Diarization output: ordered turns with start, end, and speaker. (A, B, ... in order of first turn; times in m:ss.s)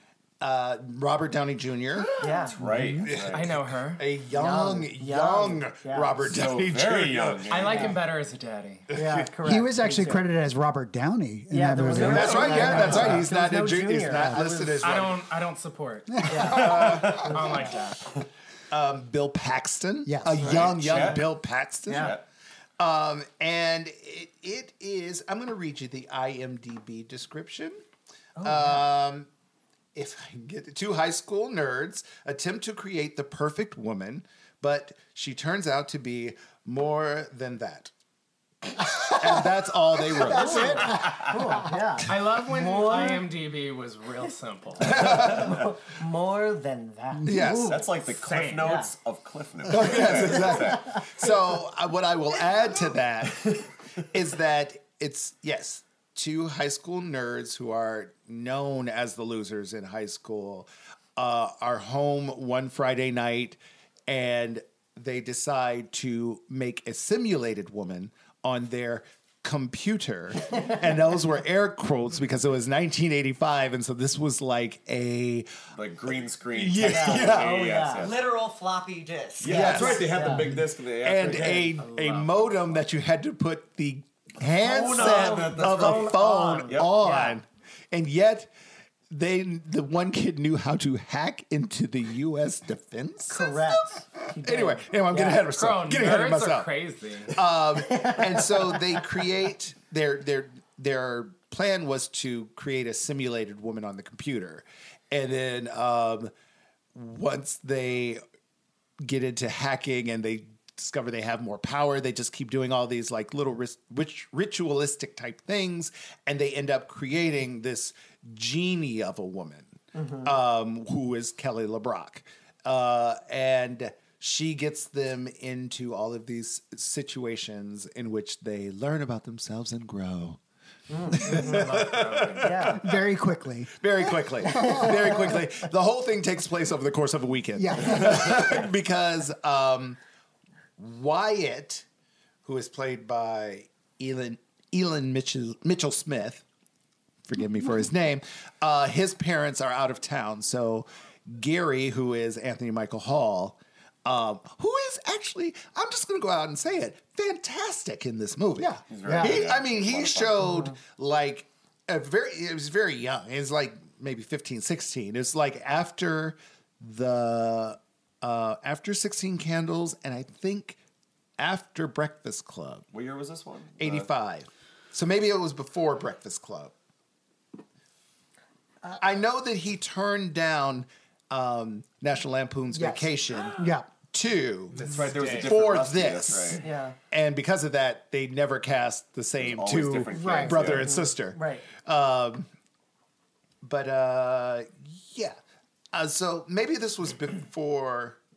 0:00.4-0:02.1 A
0:02.0-0:02.5 B
0:02.2-0:02.6 C
0:02.4-0:03.5 D
0:02.6-0:03.1 E
0:03.0-0:07.7 A
0:03.3-0:04.0 B
0:04.3-0:06.2 C
0:06.2-0:08.0 D
0:07.5-0:08.9 B
0:07.6-0:07.9 C
0:08.9-0:10.3 C
0:09.4-0:13.3 E
0:11.5-0:15.1 C
0:11.9-0:15.2 A
0:12.8-0:13.1 D
0:14.8-0:18.0 B
0:16.2-0:17.7 C
0:16.5-0:17.4 A
0:16.8-0:17.3 D
0:18.7-0:22.2 A
0:20.0-0:20.5 E
0:20.4-0:21.2 D
0:21.9-0:22.2 C
0:21.9-0:22.2 D
0:22.8-0:27.8 A
0:28.4-0:28.8 C
0:28.4-0:29.3 A
0:29.9-0:37.9 A
0:38.7-0:41.1 A
0:40.1-0:43.3 C
0:40.6-0:41.1 D
0:42.1-0:45.1 B
0:44.8-0:45.6 A
0:44.9-0:47.9 C
0:47.2-0:47.8 A
0:47.6-0:50.9 D
0:48.1-0:48.8 B
0:48.6-0:48.9 C
0:49.7-1:15.5 A
1:15.7-1:18.2 D
1:16.5-1:17.6 A
1:16.8-1:18.1 C
1:17.6-1:19.8 F
1:19.4-1:21.9 D
1:19.4-1:28.5 A
1:19.5-1:20.5 C
1:24.6-1:26.2 D
1:24.8-1:27.4 C
1:26.7-1:26.9 D
1:29.1-1:36.7 A
1:33.3-1:35.4 C
1:35.5-1:37.4 B
1:37.3-1:46.3 A
1:37.7-1:39.1 C
1:46.9-1:48.2 A
1:49.0-2:10.4 A
1:59.9-2:00.3 C
2:10.9-2:13.0 C
2:11.1-2:12.7 A
2:11.1-2:12.7 B
2:12.7-2:13.8 E
2:13.8-2:20.0 A
2:14.5-2:14.8 E
2:14.6-2:14.9 C
2:17.6-2:18.5 E
2:20.8-2:21.8 A
2:22.4-2:26.4 A
2:27.2-2:50.8 A
2:38.6-2:39.4 E
2:38.9-2:40.4 D
2:51.4-2:52.8 A
2:52.9-2:54.1 D
2:53.8-2:56.7 A
2:58.9-3:12.5 A
3:02.7-3:03.9 E
3:04.7-3:05.6 B
3:04.8-3:06.6 D
3:06.6-3:07.0 C
3:09.4-3:11.0 D
3:10.1-3:10.9 E
3:10.8-3:11.6 C
3:13.6-3:15.4 A
3:15.9-3:18.2 A